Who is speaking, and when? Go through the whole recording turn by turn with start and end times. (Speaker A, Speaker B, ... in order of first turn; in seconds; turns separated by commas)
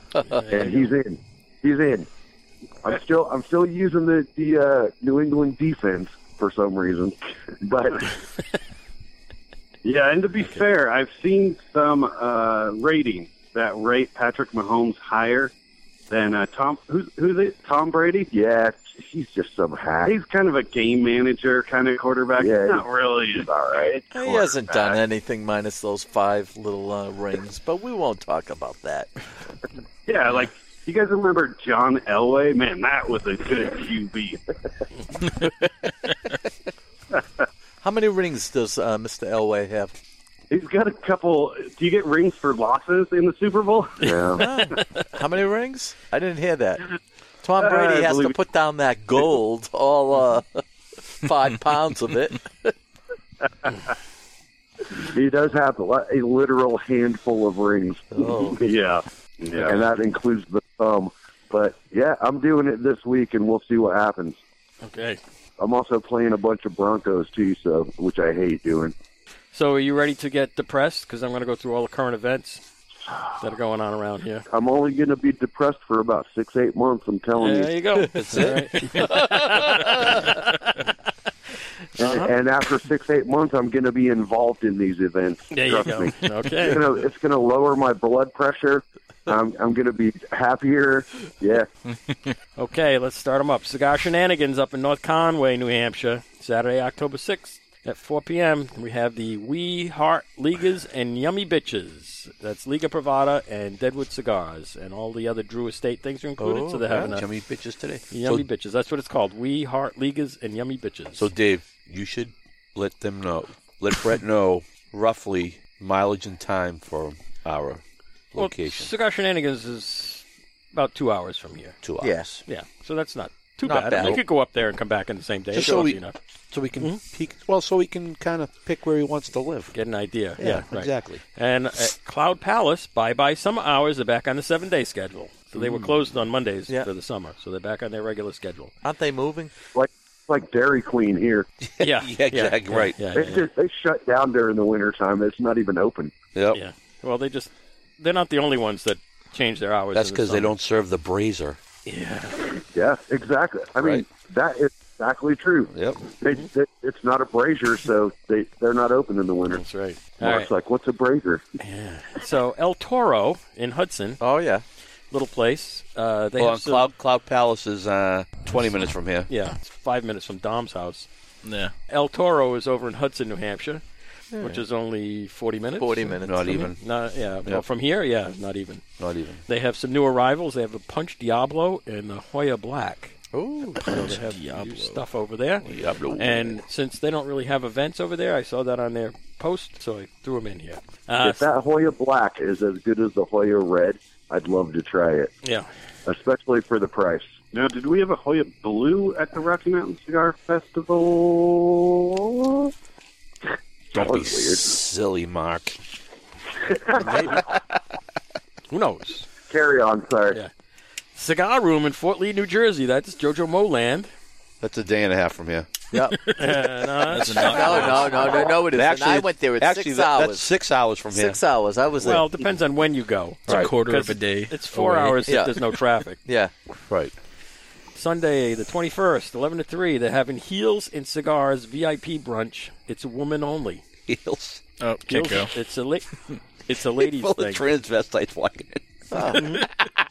Speaker A: 0.3-0.9, Speaker B: 0.5-2.1, Speaker B: 2.8-8.2, Speaker C: 9.8-15.5, Speaker C: 16.1-18.3, Speaker B: 18.3-20.1, Speaker C: 20.1-25.0, Speaker B: 22.4-22.9, Speaker D: 24.1-29.1, Speaker C: 30.1-34.4, Speaker D: 37.8-40.0, Speaker C: 40.5-44.5, Speaker B: 44.0-44.5, Speaker D: 44.3-46.9, Speaker D: 47.4-52.7, Speaker C: 47.6-48.4, Speaker B: 55.0-58.3, Speaker D: 58.1-58.6, Speaker C: 58.6-59.8, Speaker B: 59.6-64.4, Speaker A: 64.8-65.2, Speaker B: 65.6-68.9, Speaker A: 69.5-72.6, Speaker A: 73.4-74.5, Speaker B: 74.5-77.7, Speaker A: 77.4-80.7, Speaker E: 78.1-79.0, Speaker A: 82.0-82.3, Speaker B: 82.0-91.7, Speaker A: 85.5-86.8, Speaker A: 92.6-107.2, Speaker D: 106.4-107.1, Speaker E: 106.8-108.5, Speaker A: 108.1-111.3, Speaker E: 111.2-117.8, Speaker E: 118.3-118.9, Speaker A: 118.4-121.8, Speaker E: 121.8-122.2, Speaker D: 122.0-122.4, Speaker A: 122.5-126.2, Speaker D: 123.6-124.2, Speaker E: 125.5-126.0, Speaker D: 125.6-125.8, Speaker E: 126.5-129.7, Speaker A: 129.7-138.7, Speaker E: 130.4-131.2, Speaker D: 138.8-139.5, Speaker B: 139.7-141.5, Speaker E: 141.7-143.1, Speaker A: 141.8-143.4, Speaker B: 143.2-146.2, Speaker E: 146.3-146.6, Speaker A: 146.5-150.5, Speaker E: 149.9-151.6, Speaker A: 151.9-152.5, Speaker B: 152.7-159.6, Speaker E: 153.8-154.1, Speaker E: 155.7-156.0, Speaker A: 159.5-160.5, Speaker B: 160.2-161.4, Speaker A: 161.6-164.2, Speaker D: 164.2-164.6, Speaker A: 165.1-166.9, Speaker E: 166.4-169.3, Speaker A: 169.3-171.1, Speaker F: 171.4-171.7, Speaker A: 171.9-173.8, Speaker D: 174.3-174.6, Speaker A: 174.4-178.8, Speaker D: 175.8-176.7, Speaker E: 176.2-176.8, Speaker E: 179.0-179.4, Speaker A: 179.5-183.2, Speaker D: 183.3-184.0, Speaker A: 183.8-191.5, Speaker F: 183.8-185.0, Speaker E: 185.6-186.6, Speaker B: 191.2-195.3, Speaker A: 195.4-195.7, Speaker B: 196.1-197.3, Speaker C: 197.5-202.5, Speaker B: 203.9-204.7, Speaker E: 203.9-205.8, Speaker B: 206.7-207.4, Speaker E: 207.0-207.5, Speaker A: 208.7-209.3, Speaker B: 209.5-210.4, Speaker A: 211.2-214.1, Speaker E: 214.6-215.7, Speaker D: 215.9-216.2, Speaker F: 216.3-218.4, Speaker A: 216.3-218.6, Speaker D: 217.4-220.5, Speaker E: 218.6-221.4, Speaker D: 221.1-222.3, Speaker A: 222.0-226.2, Speaker F: 223.5-225.6, Speaker D: 225.3-225.6, Speaker D: 226.2-226.5, Speaker E: 226.9-227.1, Speaker A: 227.9-233.8, Speaker E: 234.1-234.6, Speaker F: 234.8-235.5, Speaker A: 235.1-237.6, Speaker E: 237.0-239.6, Speaker D: 239.1-239.6, Speaker A: 239.3-239.6